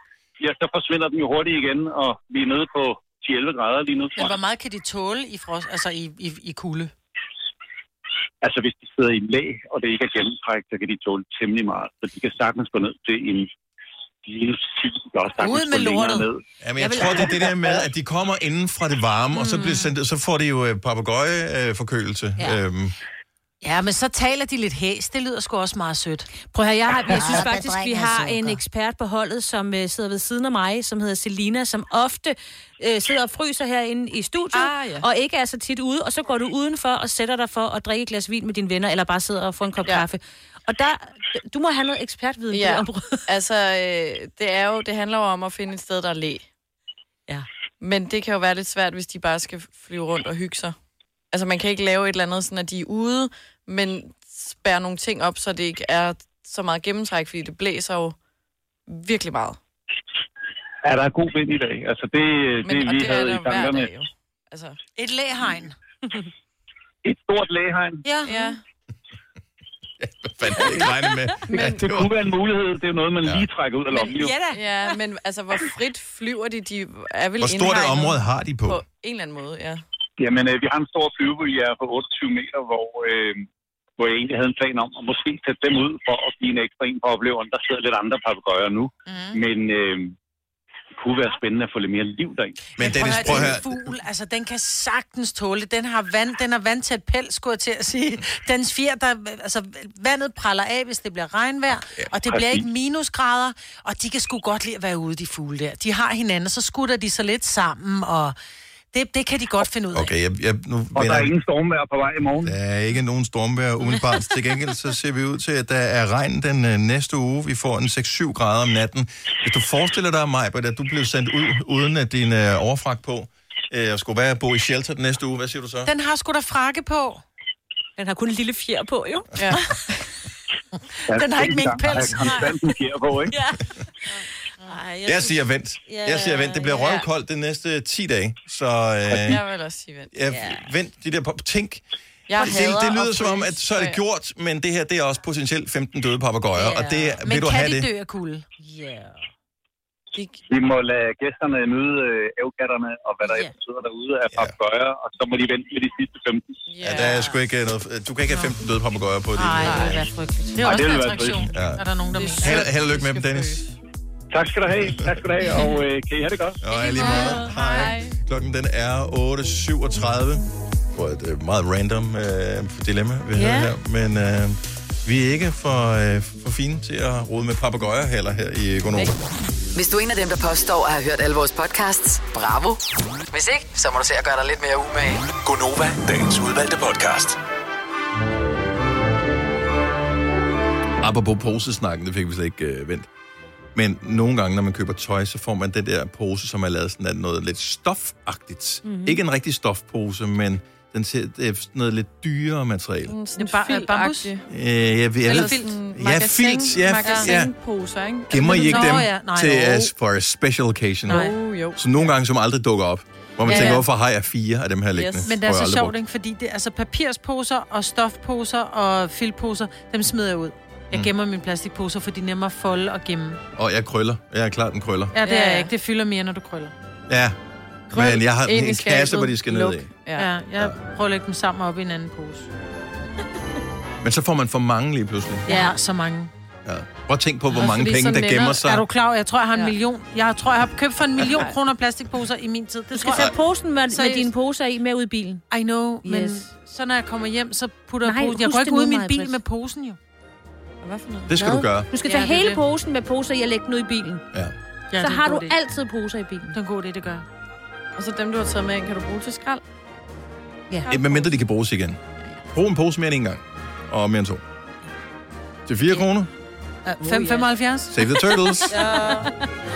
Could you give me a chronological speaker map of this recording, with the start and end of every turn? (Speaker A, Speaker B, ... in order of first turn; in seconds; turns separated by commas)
Speaker A: 0.4-4.4, Speaker B: 4.2-6.9, Speaker A: 8.4-13.5, Speaker A: 14.2-16.4, Speaker B: 15.4-16.3, Speaker C: 16.6-22.9, Speaker D: 16.8-17.5, Speaker B: 23.6-26.3, Speaker D: 26.4-43.2, Speaker B: 27.1-28.6, Speaker E: 34.5-35.0, Speaker E: 42.5-46.5, Speaker E: 47.8-50.8, Speaker E: 51.3-58.1, Speaker E: 58.9-59.6, Speaker A: 60.8-63.9, Speaker E: 62.6-64.8, Speaker B: 65.0-65.8, Speaker A: 67.0-68.0, Speaker B: 68.0-68.5, Speaker E: 68.2-68.6, Speaker C: 70.0-72.1, Speaker E: 71.5-71.8, Speaker A: 71.6-74.4, Speaker D: 73.9-74.9, Speaker E: 74.5-79.8, Speaker C: 77.4-78.8, Speaker A: 80.2-83.5, Speaker A: 84.0-90.1, Speaker B: 89.1-89.4, Speaker A: 91.0-93.5, Speaker C: 92.8-93.9, Speaker B: 92.8-108.3, Speaker C: 101.8-102.1, Speaker A: 102.3-102.7, Speaker B: 108.9-110.1, Speaker C: 109.9-111.3, Speaker A: 110.9-112.5, Speaker C: 112.4-125.9, Speaker B: 125.8-127.2, Speaker D: 128.0-129.7, Speaker E: 129.4-129.7, Speaker A: 131.1-133.3, Speaker B: 131.1-132.5, Speaker D: 132.0-132.5, Speaker D: 133.3-133.7, Speaker D: 134.6-136.9, Speaker C: 135.0-139.4, Speaker E: 136.8-137.1, Speaker E: 139.1-140.1, Speaker C: 140.1-141.8, Speaker D: 140.3-140.7, Speaker E: 142.3-144.0, Speaker C: 142.4-147.9, Speaker B: 146.6-148.4, Speaker D: 146.6-146.9, Speaker D: 148.6-149.2, Speaker E: 150.1-150.4, Speaker A: 150.5-156.6, Speaker D: 153.2-153.5, Speaker E: 156.7-157.2, Speaker C: 156.8-160.1, Speaker B: 159.4-163.1, Speaker A: 160.6-161.5, Speaker C: 161.4-161.8, Speaker E: 162.2-163.7, Speaker C: 162.4-163.6, Speaker A: 164.3-166.6, Speaker C: 166.6-179.1, Speaker D: 166.9-167.9, Speaker E: 167.0-168.2, Speaker D: 173.3-173.7, Speaker F: 179.7-182.8, Speaker F: 183.3-185.3, Speaker G: 185.4-187.4, Speaker C: 191.0-193.1, Speaker C: 193.7-203.1, Speaker D: 198.8-199.2, Speaker E: 203.1-204.4, Speaker B: 203.3-204.3, Speaker C: 204.5-207.5, Speaker E: 205.3-209.0, Speaker B: 205.3-205.7, Speaker B: 207.0-207.3, Speaker C: 208.3-215.9, Speaker B: 208.4-209.9, Speaker B: 211.1-211.3, Speaker E: 211.1-212.1, Speaker E: 213.5-213.9, Speaker B: 213.5-213.8, Speaker E: 214.9-215.2, Speaker B: 215.2-223.4, Speaker C: 223.6-225.1, Speaker B: 225.1-226.7, Speaker E: 225.2-225.7, Speaker C: 227.1-227.3, Speaker C: 227.9-229.9, Speaker E: 227.9-230.3, Speaker B: 230.2-232.5, Speaker C: 234.0-235.5, Speaker D: 235.5-235.7, Speaker B: 235.5-236.3, Speaker C: 236.6-238.8, Speaker E: 237.5-238.5, Speaker B: 238.6-243.3, Speaker D: 242.9-245.4, Speaker B: 243.9-244.3, Speaker B: 245.5-250.0, Speaker D: 246.0-246.5, Speaker D: 248.0-249.4, Speaker E: 250.8-251.3, Speaker C: 251.3-251.9, Speaker D: 251.3-254.2, Speaker E: 252.0-252.6, Speaker B: 254.9-255.6, Speaker D: 255.0-256.5, Speaker B: 256.5-257.2, Speaker E: 258.0-259.6, Speaker E: 260.8-261.3, Speaker C: 260.9-262.0, Speaker C: 262.5-264.4, Speaker C: 265.6-266.3, Speaker B: 266.9-267.9, Speaker D: 267.0-267.5, Speaker C: 267.9-268.8, Speaker D: 268.6-269.3, Speaker B: 268.7-269.3